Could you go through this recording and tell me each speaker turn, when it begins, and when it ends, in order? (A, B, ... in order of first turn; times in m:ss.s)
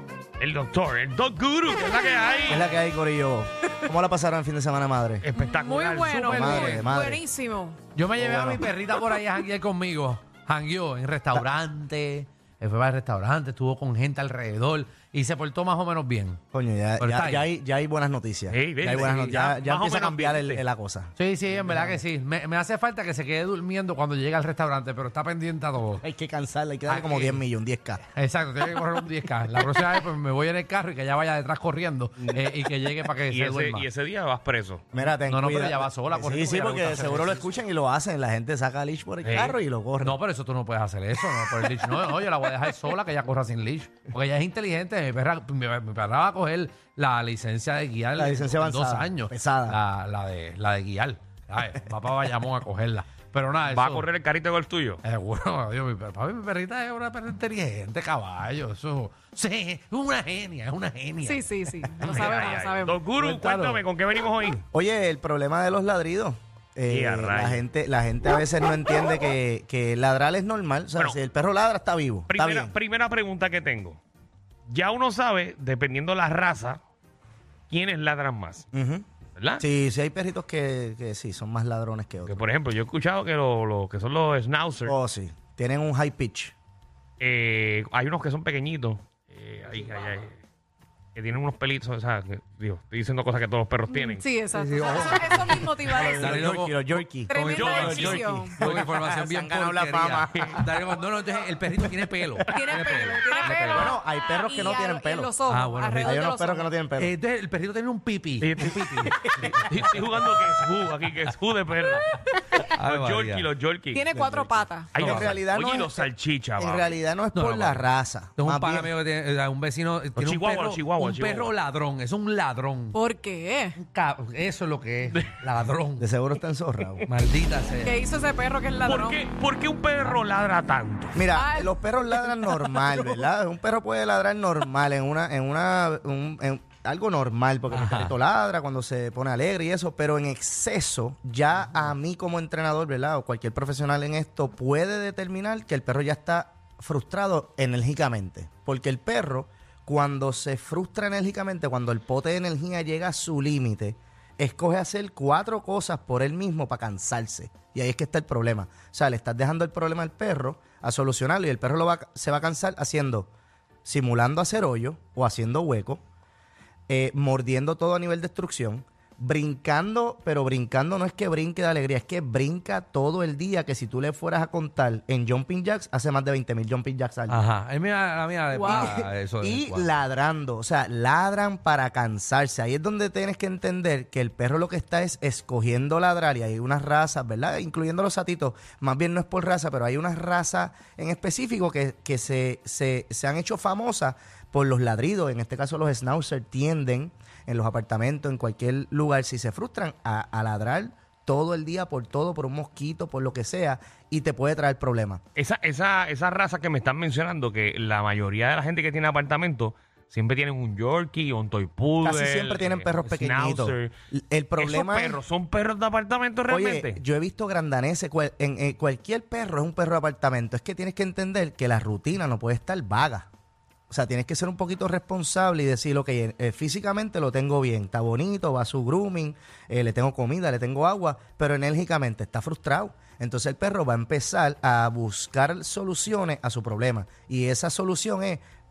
0:00.4-0:02.6 A
0:02.5-0:05.2 B
0:05.2-0:06.5 A
0:05.4-0:07.9 C
0:06.1-0:07.2 B
0:06.5-0:06.9 D
0:07.9-0:16.4 D
0:08.2-0:08.6 B
0:16.5-0:22.0 B
0:17.0-0:17.5 D
0:18.5-0:20.6 A
0:21.2-0:26.0 D
0:26.0-0:28.0 B
0:26.9-0:27.4 D
0:28.1-0:33.9 D
0:33.3-0:34.9 A
0:34.9-0:40.2 B
0:35.0-0:37.5 D
0:39.2-0:39.6 A
0:40.0-0:54.1 D
0:48.2-0:49.8 B
0:53.6-0:55.0 A
0:55.0-1:02.3 D
1:01.2-1:03.0 C
1:02.0-1:04.6 A
1:03.2-1:03.8 D
1:04.7-1:12.7 B
1:06.8-1:07.6 A
1:12.3-1:14.0 A
1:14.7-1:16.8 A
1:17.7-1:18.6 A
1:18.7-1:19.0 B
1:19.4-1:19.6 A
1:19.6-1:22.4 B
1:22.3-1:25.0 A
1:24.8-1:26.5 B
1:27.2-1:30.4 A
1:31.1-1:34.2 A
1:33.9-1:36.5 C
1:34.5-1:43.9 D
1:35.9-1:40.7 B
1:37.3-1:38.6 C
1:37.5-1:38.4 A
1:42.4-1:46.7 C
1:43.7-1:45.3 B
1:45.5-1:46.2 D
1:46.0-1:47.1 B
1:47.0-1:50.5 D
1:48.4-1:56.9 A
1:52.6-1:53.5 D
1:53.9-1:54.9 C
1:55.0-1:55.3 D
1:55.0-1:58.9 B
1:57.3-2:03.0 D
2:00.2-2:01.5 A
2:02.9-2:03.8 C
2:03.8-2:06.0 D
2:06.0-2:07.0 B
2:07.0-2:08.0 D
2:07.8-2:09.2 C
2:08.8-2:11.3 A
2:11.1-2:43.3 B
2:11.3-2:12.8 C
2:17.7-2:18.1 D
2:43.8-2:46.0 B
2:46.9-2:57.4 B
2:57.3-3:00.0 D
2:58.5-2:59.0 C
2:58.6-3:25.2 B
3:25.4-3:33.9 A
3:32.0-3:35.2 B
3:34.6-3:37.0 A
3:36.5-3:43.3 B
3:43.9-3:58.4 B